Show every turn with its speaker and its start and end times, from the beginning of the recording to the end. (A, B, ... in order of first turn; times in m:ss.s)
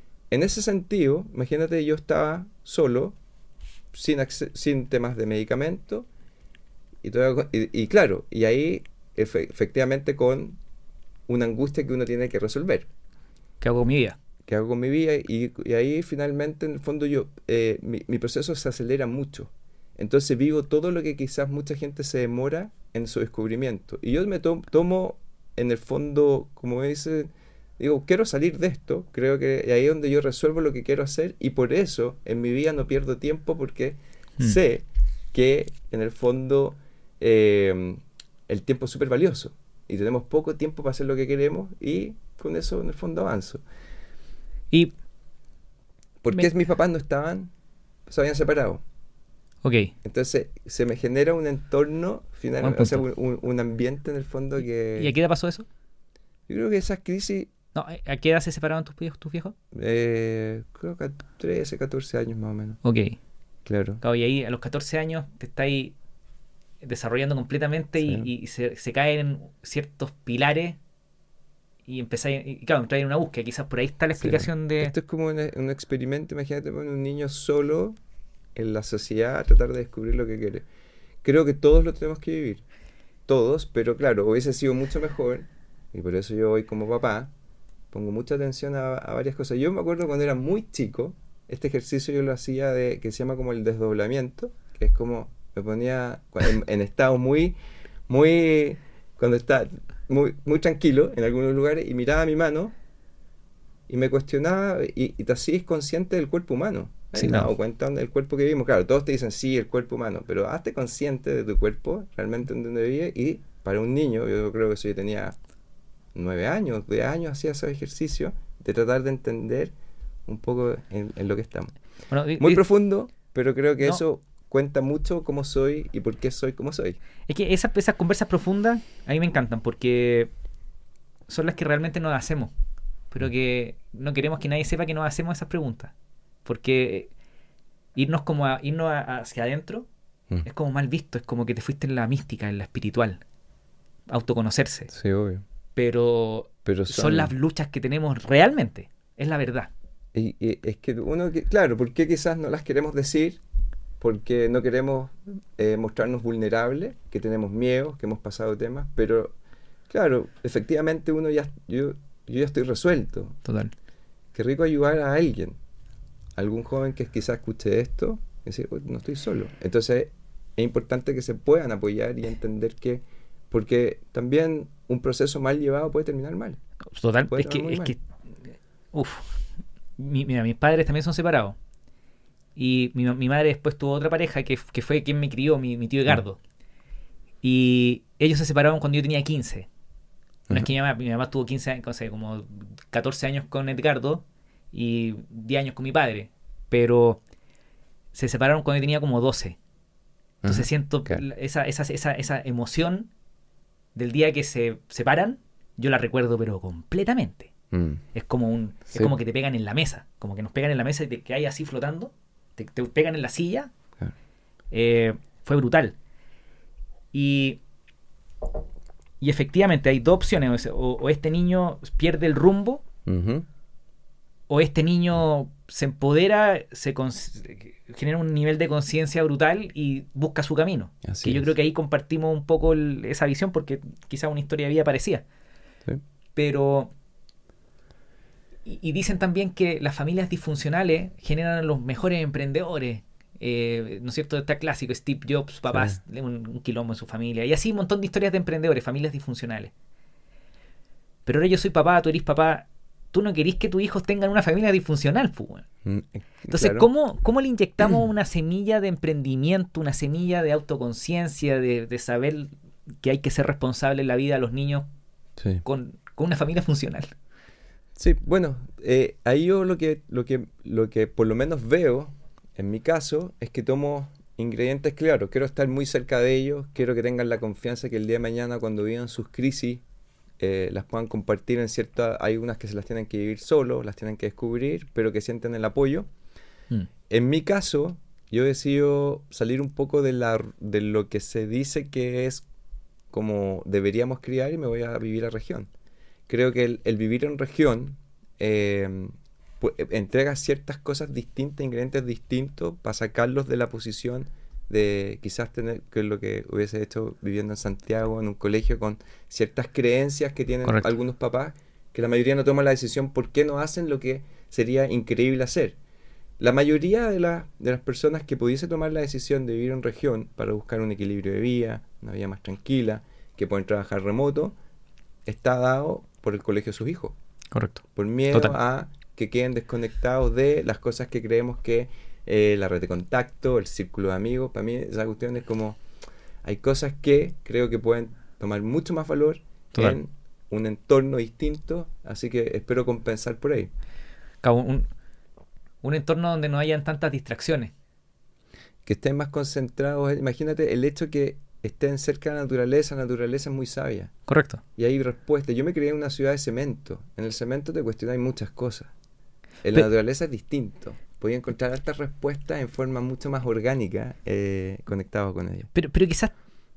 0:00.3-0:03.2 A
0:03.9-0:06.1 A
0:07.0-0:10.6 A
0:11.3-0:12.9 A
0:13.6-0:14.2 B
0:14.5-0:43.6 A
0:46.2-0:47.5 A
0:48.1-0:48.8 A
0:49.6-0:49.9 B
0:50.0-0:55.1 A
0:52.6-0:53.0 B
0:55.0-0:55.7 B
0:56.5-0:57.5 A
0:57.7-0:59.5 B
0:59.7-1:02.8 A
1:02.8-1:03.2 B
1:03.6-1:04.0 A
1:04.0-1:05.9 B
1:06.8-1:10.8 B
1:08.0-1:08.3 A
1:11.8-1:14.9 B
1:14.2-1:18.0 A
1:18.6-1:20.6 A
1:21.2-1:22.6 A
1:23.3-1:27.3 A
1:27.9-1:37.6 A
1:38.1-1:42.7 A
1:43.9-1:55.4 A
1:47.1-1:47.5 B
1:56.1-1:59.7 A
2:00.3-2:01.7 A
2:02.1-2:02.6 B
2:02.4-2:07.0 A
2:07.3-2:10.3 B
2:11.3-2:12.5 B
2:13.1-2:15.9 B
2:16.4-2:17.1 B
2:17.9-2:19.9 B
2:20.4-2:23.2 B
2:24.1-2:24.9 B
2:24.9-2:25.4 A
2:25.8-2:29.7 B
2:26.6-2:27.3 A
2:30.1-2:33.4 A
2:34.0-2:39.3 A
2:39.9-2:43.4 A
2:43.4-2:43.7 B
2:44.3-2:45.6 A
2:46.4-2:56.6 A
2:56.9-2:58.0 B
2:57.3-2:57.9 A
2:58.9-2:59.4 B
3:00.0-3:01.6 B
3:02.6-3:06.4 B
3:07.4-3:09.7 B
3:10.5-3:17.2 B
3:18.1-3:19.6 B
3:20.4-3:21.2 A
3:20.4-3:23.1 B
3:23.9-3:27.5 B
3:27.7-3:28.0 A
3:28.1-3:33.7 B
3:34.7-3:35.9 B
3:37.1-3:37.6 B
3:39.2-3:42.8 B
3:43.0-3:43.4 A
3:44.5-3:55.2 B
3:51.0-3:51.5 A
3:56.4-3:56.9 B
3:58.6-4:09.7 B
4:05.7-4:06.0 A
4:11.2-4:15.6 B
4:15.8-4:16.9 A
4:16.5-4:24.9 B
4:25.6-4:27.1 B
4:28.0-4:39.8 A
4:40.4-4:46.1 A
4:47.1-4:52.4 A
4:53.1-4:55.7 A
4:56.3-5:15.8 A
5:10.6-5:10.9 B
5:16.4-5:24.5 A
5:25.2-5:27.1 A
5:27.5-5:28.6 B
5:27.9-5:35.8 A
5:36.4-5:43.7 A
5:44.4-5:44.9 B
5:45.8-5:47.7 B
5:48.8-5:54.1 A
5:54.3-5:54.6 B
5:54.8-5:58.9 A
5:59.6-6:05.7 A
6:05.7-6:06.4 B